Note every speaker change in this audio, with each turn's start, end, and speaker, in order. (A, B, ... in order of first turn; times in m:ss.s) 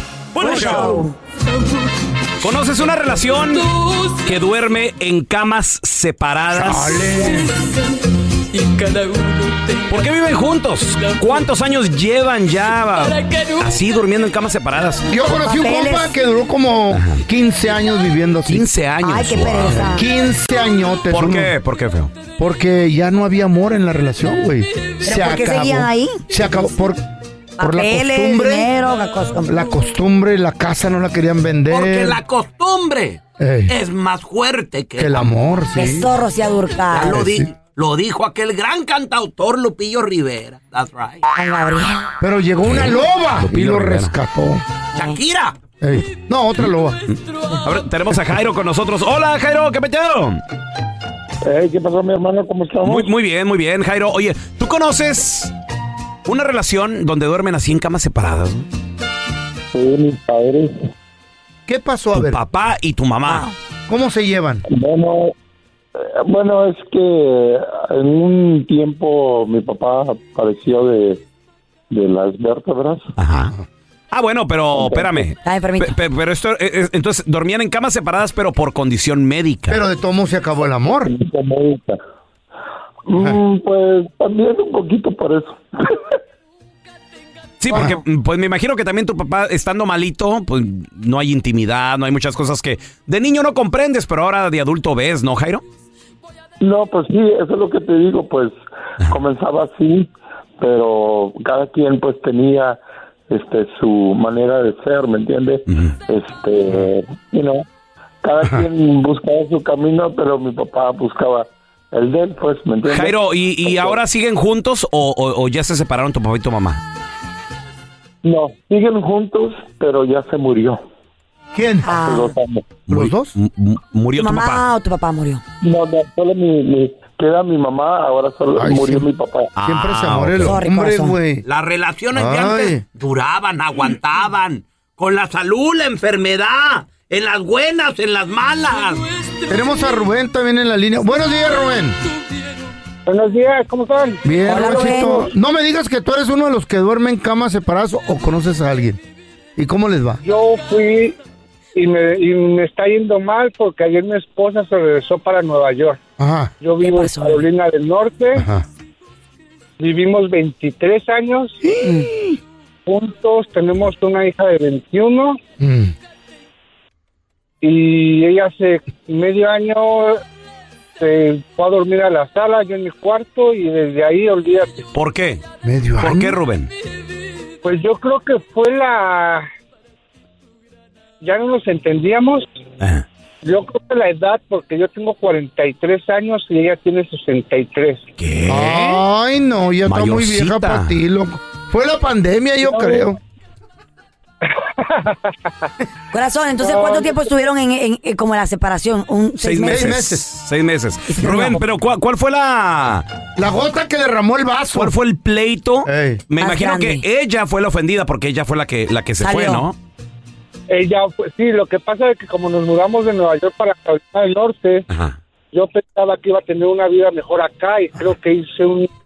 0:00.3-0:01.0 A
0:00.4-0:01.2 B
0:02.4-0:07.3 A
0:06.5-0:07.5 C
0:09.9-0:15.1 A
0:15.1-0:18.7 C
0:15.4-0:16.1 B
0:16.9-0:17.2 A
0:18.5-0:20.0 A
0:19.0-0:20.0 B
0:19.7-0:21.5 C
0:21.1-0:22.1 A
0:22.4-0:27.0 C
0:25.0-0:26.2 B
0:27.6-0:28.7 C
0:27.6-0:29.6 B
0:29.5-0:32.2 C
0:31.7-0:33.2 D
0:31.9-0:32.2 A
0:33.4-0:33.8 C
0:34.2-0:35.2 A
0:35.0-0:36.1 C
0:35.8-0:37.2 B
0:37.0-0:37.5 C
0:37.0-0:37.8 A
0:37.0-0:37.8 D
0:38.4-0:38.9 D
0:39.6-0:41.1 D
0:41.4-0:42.0 B
0:42.2-0:44.6 C
0:42.6-0:44.2 A
0:45.0-0:45.2 B
0:45.0-0:45.5 D
0:45.8-0:47.0 C
0:47.6-0:50.4 A
0:51.4-0:53.1 E
0:52.8-0:55.5 A
0:56.3-0:58.6 A
0:59.7-1:00.9 E
1:01.7-1:02.4 C
1:02.1-1:03.5 A
1:03.3-1:03.6 B
1:03.9-1:04.6 C
1:04.7-1:05.3 E
1:06.0-1:11.2 E
1:11.9-1:13.1 E
1:13.2-1:13.5 A
1:14.1-1:19.8 A
1:14.7-1:15.2 E
1:15.4-1:15.9 B
1:19.7-1:21.1 C
1:20.9-1:22.0 E
1:23.1-1:25.6 E
1:27.6-1:35.6 A
1:27.7-1:28.0 C
1:36.6-1:47.7 E
1:45.7-1:45.9 A
1:48.2-1:54.0 E
1:52.9-1:56.8 A
1:58.2-2:00.8 E
2:01.5-2:02.0 C
2:01.8-2:02.4 B
2:01.9-2:02.8 E
2:02.9-2:03.4 C
2:02.9-2:04.6 A
2:04.2-2:05.4 B
2:05.6-2:09.5 E
2:08.6-2:09.1 C
2:09.6-2:10.6 A
2:09.6-2:11.4 C
2:10.4-2:11.2 B
2:12.0-2:12.8 A
2:12.1-2:12.8 C
2:13.8-2:14.4 D
2:16.8-2:17.1 A
2:19.5-2:22.0 C
2:23.1-2:24.2 F
2:24.2-2:29.0 C
2:24.4-2:25.3 B
2:29.6-2:30.2 C
2:30.2-2:31.2 F
2:31.8-2:36.0 F
2:36.2-2:36.5 C
2:36.6-2:38.4 F
2:36.8-2:37.4 B
2:38.4-2:38.6 C
2:39.8-2:41.6 F
2:41.6-2:42.4 C
2:42.9-2:45.4 F
2:45.6-2:45.9 C
2:47.6-2:50.2 F
2:51.0-2:54.9 F
2:54.9-2:55.4 A
2:55.6-2:56.4 C
2:56.0-2:56.7 A
2:57.6-2:59.5 F
3:01.2-3:02.5 F
3:03.4-3:08.1 F
3:08.2-3:09.0 A
3:08.5-3:13.2 C
3:09.9-3:11.0 A
3:12.6-3:13.1 F
3:14.5-3:15.4 F
3:16.1-3:20.0 B
3:16.6-3:17.4 F
3:19.4-3:23.1 A
3:19.6-3:20.2 C
3:21.1-3:21.6 B
3:23.4-3:25.0 C
3:24.7-3:29.8 A
3:25.8-3:26.2 C
3:26.4-3:27.0 B
3:29.2-3:29.7 B
3:30.7-3:34.8 F
3:34.9-3:35.2 A
3:35.5-3:38.9 F